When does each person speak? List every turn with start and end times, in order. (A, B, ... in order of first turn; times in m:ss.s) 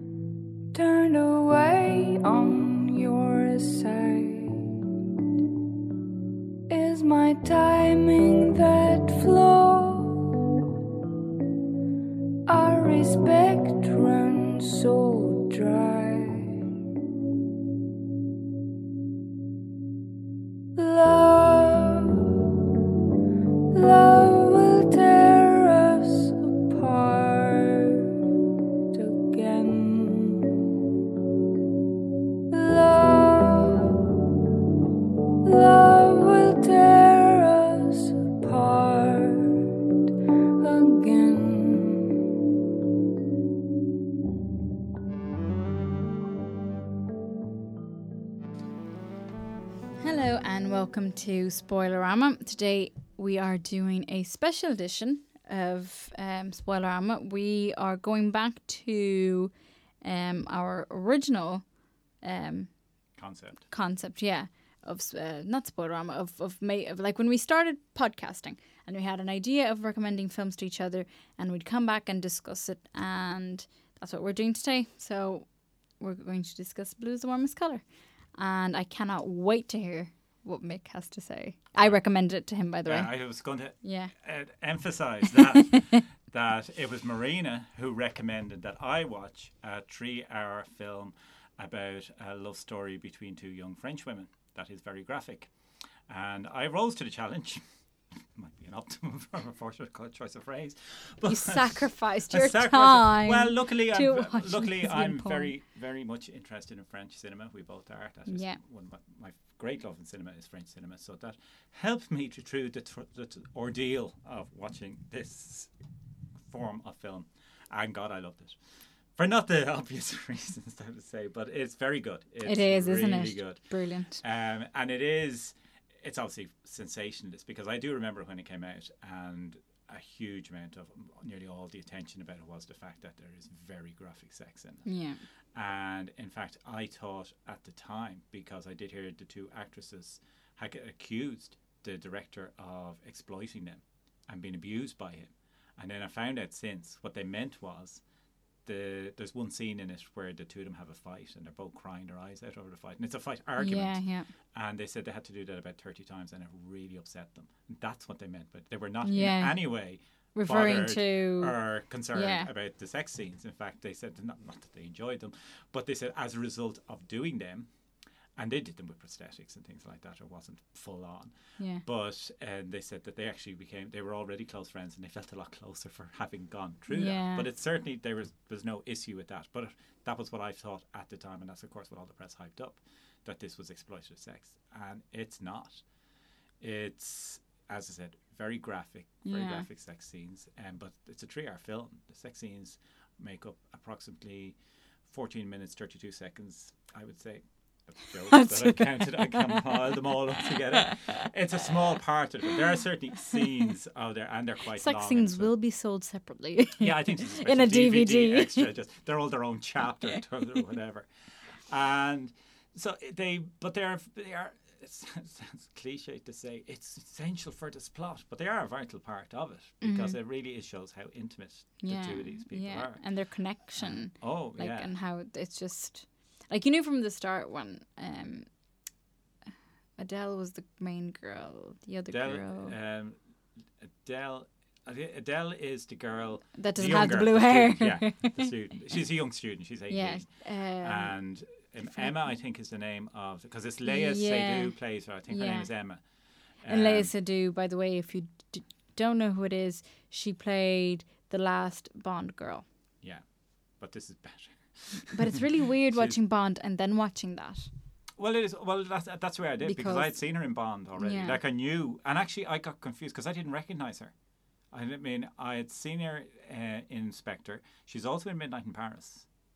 0:00.7-0:04.8 A
0:06.7-0:10.4 A
0:12.4-0:16.7 A
0:20.7-0:22.5 A
0:23.7-0:28.3 A
0:28.9-0:30.7 A
0:32.5-0:34.2 A
0:35.4-0:40.0 A
0:40.6-0:42.3 A
0:50.0-1:01.7 B
1:02.2-1:02.8 B
1:03.2-1:03.6 C
1:03.6-1:24.1 B
1:21.8-1:22.1 C
1:22.8-1:35.5 C
1:36.1-1:37.6 C
1:38.2-1:55.7 C
1:41.3-1:45.5 B
1:48.3-1:48.6 B
1:56.4-1:58.6 C
1:59.1-2:14.9 C
2:02.4-2:04.2 B
2:14.8-2:15.2 B
2:15.5-2:28.0 C
2:28.6-2:34.0 C
2:33.6-2:34.3 B
2:34.5-2:47.7 C
2:39.0-2:39.6 B
2:40.3-2:42.5 B
2:48.4-3:05.8 C
2:51.6-2:51.8 B
2:56.9-2:57.5 B
3:06.6-3:25.5 C
3:09.2-3:09.7 B
3:18.3-3:19.7 B
3:24.8-3:28.7 B
3:26.8-3:43.2 C
3:39.8-3:40.2 B
3:41.8-3:48.5 B
3:43.7-3:44.9 C
3:50.0-3:52.8 B
3:52.1-3:53.2 C
3:53.8-4:06.0 C
3:56.5-3:58.5 B
3:59.9-4:01.2 B
4:01.8-4:02.2 B
4:03.8-4:05.7 B
4:06.6-4:07.1 C
4:06.7-4:12.6 B
4:13.8-4:15.4 C
4:15.1-4:17.7 B
4:15.9-4:16.2 C
4:18.2-4:24.1 C
4:19.6-4:21.4 B
4:24.7-4:29.3 C